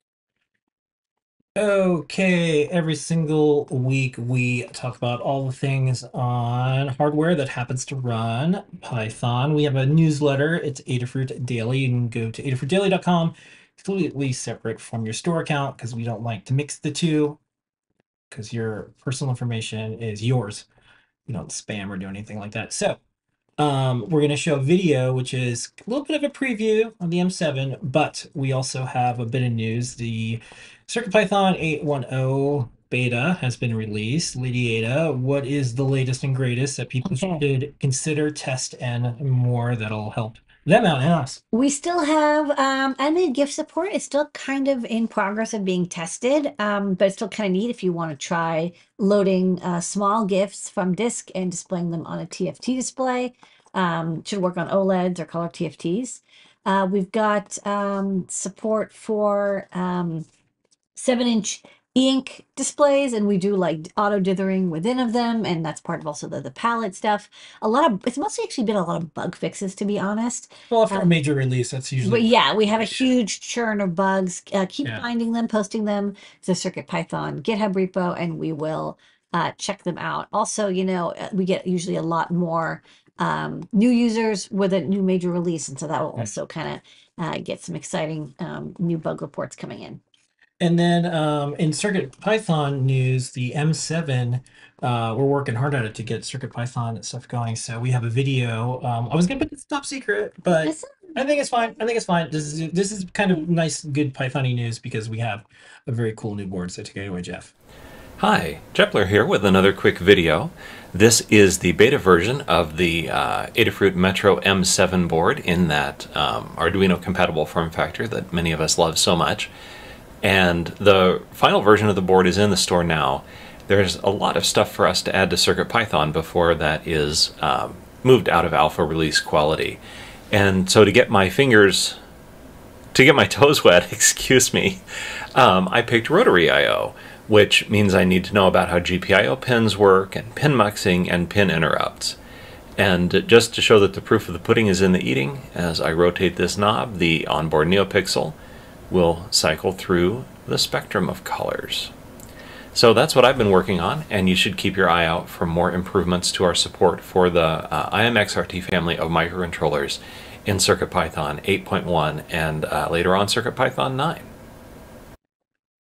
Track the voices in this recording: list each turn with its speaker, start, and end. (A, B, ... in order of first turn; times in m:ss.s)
0:01.6-0:17.4 A
0:18.3-0:20.7 A
0:21.3-0:23.0 A
0:23.6-0:41.4 A
0:37.0-0:37.4 B
0:41.5-1:00.2 B
1:01.0-1:11.1 B
1:10.7-1:13.0 A
1:12.0-1:30.0 B
1:30.6-1:47.5 A
1:40.5-1:41.4 B
1:48.2-1:59.5 C
2:00.2-2:09.8 C
2:10.3-2:12.0 C
2:12.9-2:14.8 C
2:15.3-2:22.2 C
2:22.8-2:28.4 C
2:28.9-2:31.9 C
2:32.7-2:44.3 C